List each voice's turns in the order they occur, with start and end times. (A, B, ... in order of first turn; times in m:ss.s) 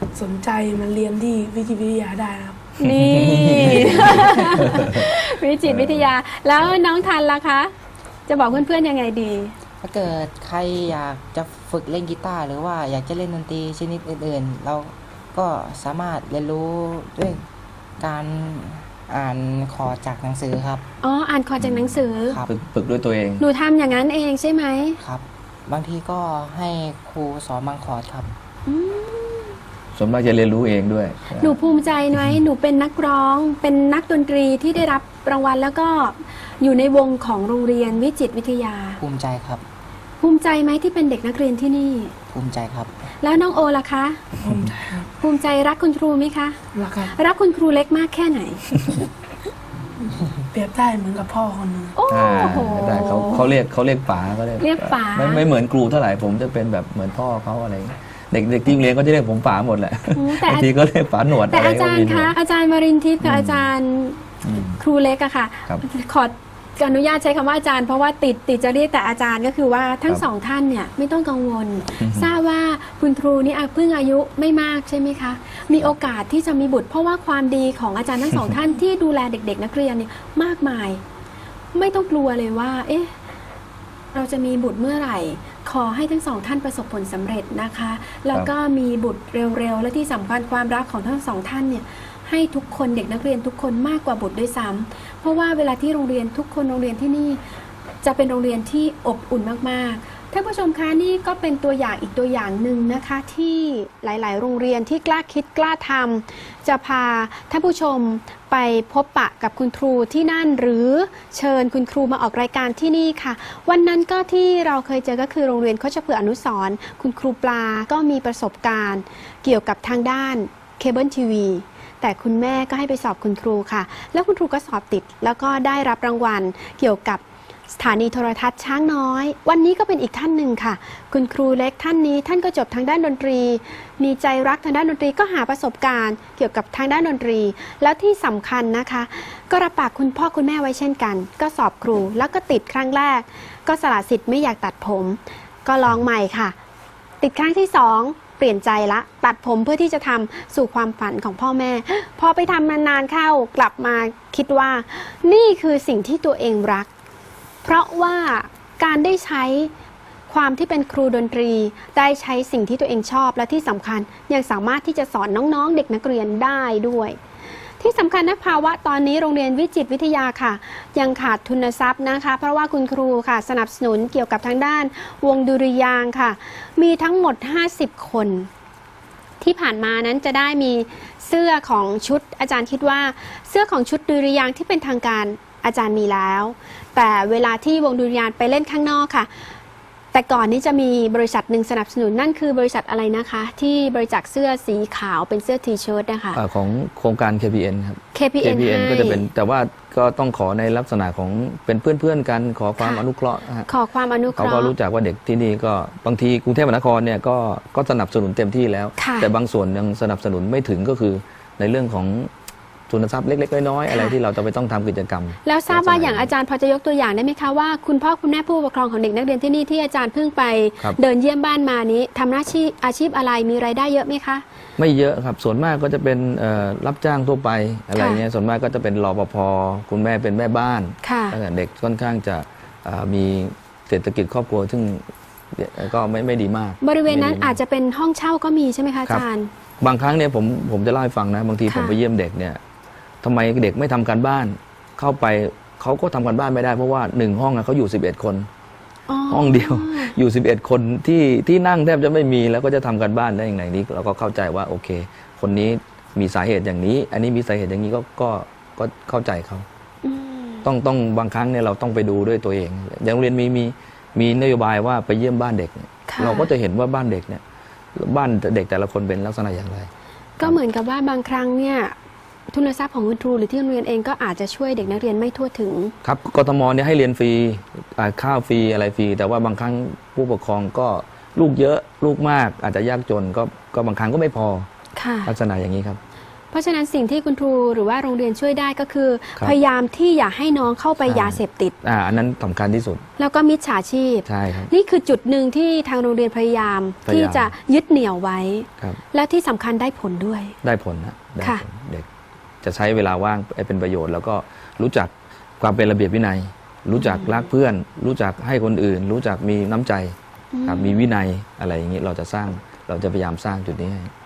0:00.2-0:02.6 A
0:02.8-0:07.7 B
0:02.8-0:05.1 C
0:05.7-0:06.1 C
0:08.3-0:09.5 B
0:09.8-0:17.5 D
0:18.0-0:20.9 D
0:21.0-0:22.4 B
0:21.6-0:21.9 C
0:22.3-0:22.6 D
0:22.5-0:23.4 C
0:23.4-0:25.0 B
0:25.0-0:28.3 D
0:28.7-0:29.6 B
0:30.0-0:31.6 C
0:31.4-0:39.0 B
0:39.0-0:39.6 D
0:40.2-0:42.1 B
0:42.3-0:42.9 D
0:43.2-0:44.2 B
0:44.4-0:45.1 A
0:45.2-0:46.6 B
0:46.8-0:47.1 A
0:47.1-0:48.8 B
0:50.5-0:52.0 A
0:52.0-0:53.5 B
0:52.1-1:02.4 C
0:54.6-0:55.4 B
1:00.1-1:00.7 B
1:01.5-1:04.2 B
1:03.2-1:03.7 C
1:04.4-1:04.8 C
1:04.8-1:21.0 B
1:12.0-1:12.3 C
1:21.8-1:23.1 B
1:24.1-1:37.4 B
1:38.0-2:26.6 B
2:27.2-2:36.9 B
2:37.6-2:39.7 B
2:40.3-2:47.2 B
2:47.8-2:58.5 B
2:59.4-3:09.3 B
3:10.1-3:16.4 B
3:16.4-3:23.7 C
3:18.2-3:19.3 B
3:22.8-3:23.0 B
3:23.7-3:24.7 B
3:24.3-3:32.3 C
3:29.0-3:29.3 B
3:32.9-3:36.3 C
3:33.9-3:34.2 B
3:35.4-3:44.4 B
3:44.8-3:57.6 C
3:48.0-3:48.2 B
3:51.0-3:51.4 B
3:56.8-3:59.5 B
3:59.8-4:02.6 C
4:01.7-4:02.0 B
4:03.2-4:08.5 C
4:09.1-4:10.1 B
4:09.3-4:19.7 C
4:20.0-4:20.7 B
4:20.6-4:27.4 C
4:26.1-4:26.5 B
4:28.0-4:30.6 C
4:30.4-4:32.0 B
4:32.5-4:35.9 B
4:36.0-4:44.7 C
4:45.0-4:45.3 B
4:45.2-4:46.0 C
4:46.5-4:51.8 B
4:51.0-4:53.0 C
4:53.2-5:00.6 B
4:54.3-4:54.7 C
4:57.1-4:57.5 C
5:00.6-5:02.1 C
5:02.6-5:14.1 C
5:07.0-5:07.4 B
5:10.5-5:11.0 B